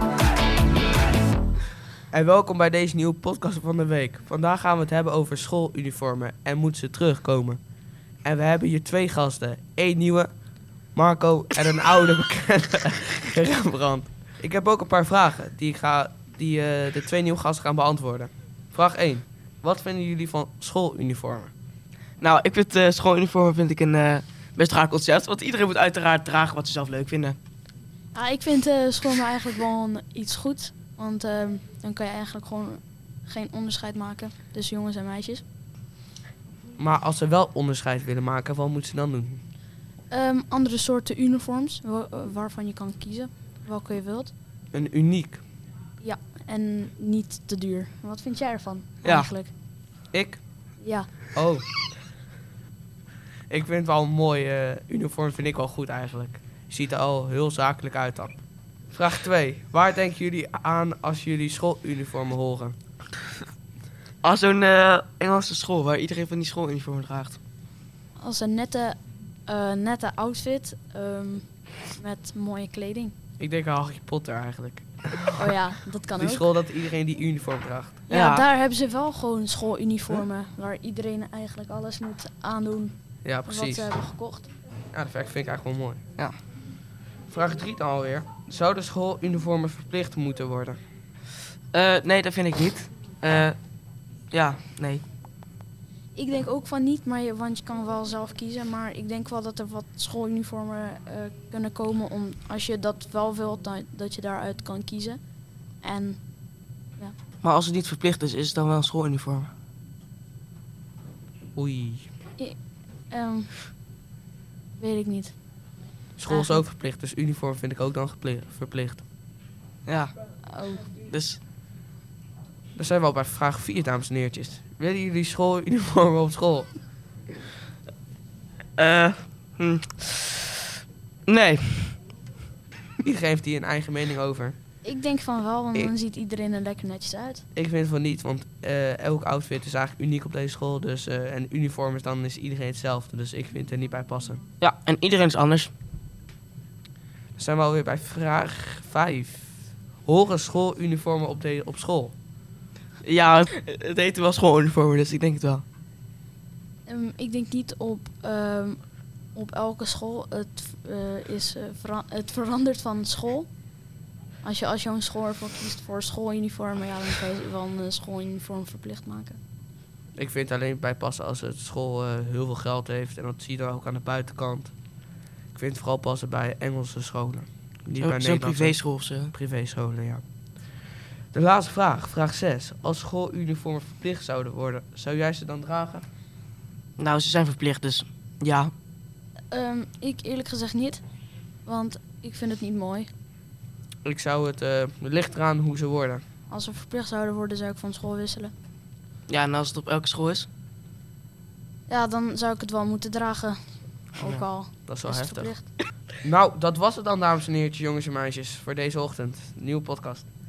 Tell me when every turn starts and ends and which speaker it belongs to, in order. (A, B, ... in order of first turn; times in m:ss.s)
0:02.1-0:07.6 A
0:08.2-0:10.3 A
0:10.9-0:21.5 A
0:22.2-0:27.4 B
0:28.1-0:35.4 C
0:36.8-0:39.4 A
0:40.1-0:44.3 C
0:44.7-0:45.4 A
0:46.0-0:49.5 C
0:49.0-0:49.3 B
0:50.1-0:50.4 A
0:50.8-0:51.1 C
0:51.3-0:51.6 A
0:53.5-0:58.4 A
0:58.9-1:02.8 A
1:04.2-1:07.4 B
1:08.2-1:13.1 C
1:13.4-1:15.5 A
1:15.4-1:16.5 C
1:16.2-1:18.0 A
1:18.1-1:18.4 B
1:18.1-1:24.5 C
1:23.2-1:23.9 A
1:24.9-1:26.0 A
1:27.3-1:30.8 A
1:31.7-1:33.6 B
1:34.3-1:35.0 B
1:36.1-1:45.2 C
1:45.8-1:46.2 C
1:47.4-1:49.5 B
1:51.6-1:52.1 A
1:52.4-1:53.7 C
1:54.8-1:55.4 C
1:56.2-1:59.0 A
1:56.3-1:56.6 C
1:59.8-2:00.1 B
2:00.4-2:00.9 C
2:01.0-2:01.4 B
2:02.8-2:06.7 A
2:08.8-2:10.5 B
2:11.2-2:12.0 B
2:13.0-2:14.6 A
2:14.8-2:17.4 C
2:17.5-2:24.4 A
2:24.6-2:25.7 B
2:27.4-2:32.1 A
2:33.0-2:35.6 B
2:36.8-2:38.8 C
2:39.3-2:43.5 C
2:44.4-2:49.4 C
2:50.1-2:54.7 A
2:55.5-3:00.2 A
2:58.0-2:59.3 B
3:01.3-3:06.0 A
3:07.0-3:08.7 B
3:09.5-3:11.0 C
3:11.6-3:13.1 C
3:14.0-3:16.2 A
3:16.5-3:18.5 C
3:19.3-3:20.5 B
3:21.9-3:25.7 C
3:24.8-3:30.3 A